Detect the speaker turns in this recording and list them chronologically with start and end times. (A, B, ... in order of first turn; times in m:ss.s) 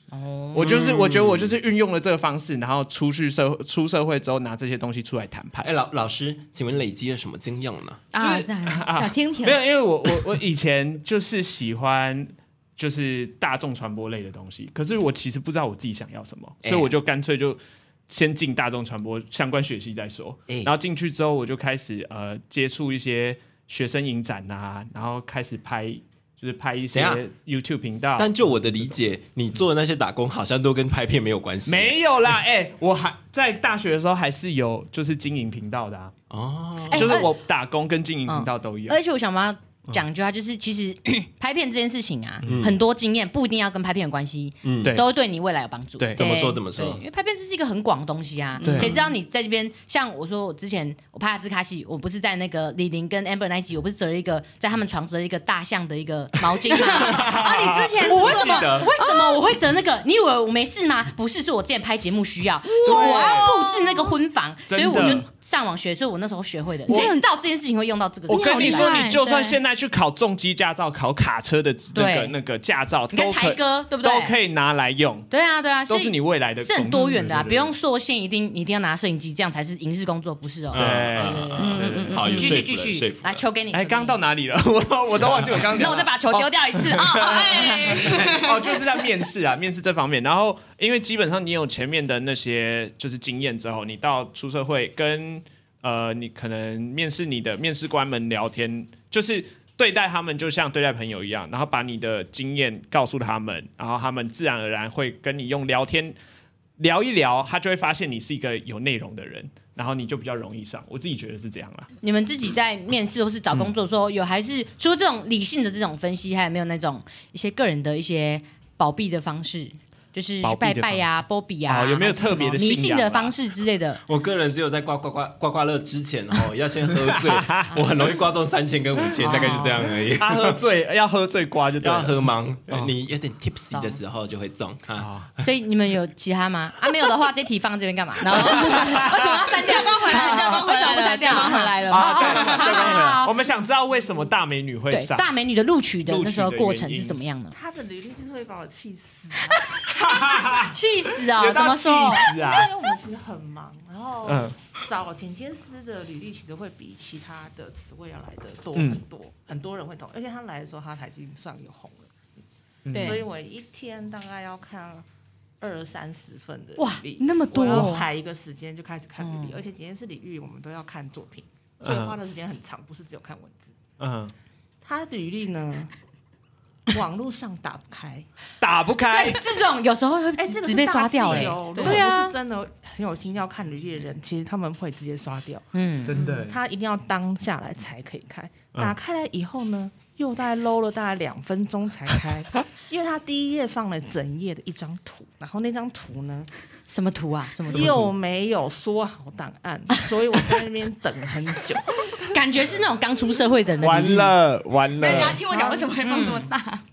0:00.1-0:01.0 A
0:00.5-0:05.7 B
0:00.6-0:01.6 C
0:05.6-0:08.1 C
0:08.1-0:10.1 D
0:08.2-0:28.9 B
0:16.6-0:16.9 C
0:26.9-0:27.2 C
0:28.2-0:32.0 C
0:31.7-0:36.1 B
0:36.3-0:37.3 C
0:36.9-0:37.3 A
0:36.9-0:39.0 B
0:38.3-1:09.5 A
0:42.4-0:42.8 C
0:44.6-0:45.0 C
0:46.0-0:46.3 B
0:46.2-0:47.0 C
0:48.6-0:49.0 D
0:48.6-0:49.0 B
0:56.9-0:58.4 B
0:56.9-0:59.4 D
0:57.2-0:58.9 C
1:02.7-1:04.1 D
1:02.8-1:03.5 B
1:04.7-1:05.3 B
1:06.9-1:07.3 D
1:08.3-1:15.3 B
1:08.3-1:09.6 D
1:11.9-1:12.4 A
1:13.1-1:14.4 A
1:15.3-1:24.2 A
1:15.9-1:17.7 B
1:20.7-1:23.4 C
1:20.7-1:22.4 B
1:21.6-1:22.5 D
1:23.7-1:46.2 B
1:25.2-1:25.6 C
1:25.6-1:29.1 D
1:46.8-1:51.9 B
1:52.0-2:04.0 A
2:00.4-2:03.3 B
2:04.1-2:10.6 C
2:07.0-2:07.8 B
2:09.2-2:09.9 A
2:09.2-2:12.2 B
2:11.8-2:15.4 C
2:15.0-2:15.3 B
2:15.4-2:23.3 A
2:18.3-2:23.0 D
2:18.4-2:19.4 B
2:20.1-2:20.6 B
2:21.9-2:25.3 B
2:24.9-2:27.6 A
2:26.0-2:27.2 B
2:27.5-2:29.8 E
2:29.8-2:32.7 B
2:30.5-2:32.3 A
2:32.3-2:42.1 E
2:34.3-2:34.6 B
2:42.8-2:43.2 B
2:42.9-2:45.0 E
2:43.0-2:43.2 A
2:45.6-2:53.7 E
2:46.8-2:48.1 A
2:49.2-2:49.6 A
2:51.8-2:52.2 B
2:54.0-2:54.3 B
2:54.8-2:55.9 E
2:56.9-2:58.3 E
2:58.6-2:59.4 B
2:59.1-3:02.4 A
3:00.4-3:16.5 E
3:01.3-3:02.0 B
3:05.7-3:06.3 A
3:06.1-3:06.6 B
3:16.9-3:18.0 A
3:17.7-3:22.0 E
3:17.8-3:18.1 B
3:22.3-3:24.4 A
3:23.8-3:25.4 B
3:25.0-3:26.8 D
3:25.0-3:26.0 E
3:26.0-3:26.5 A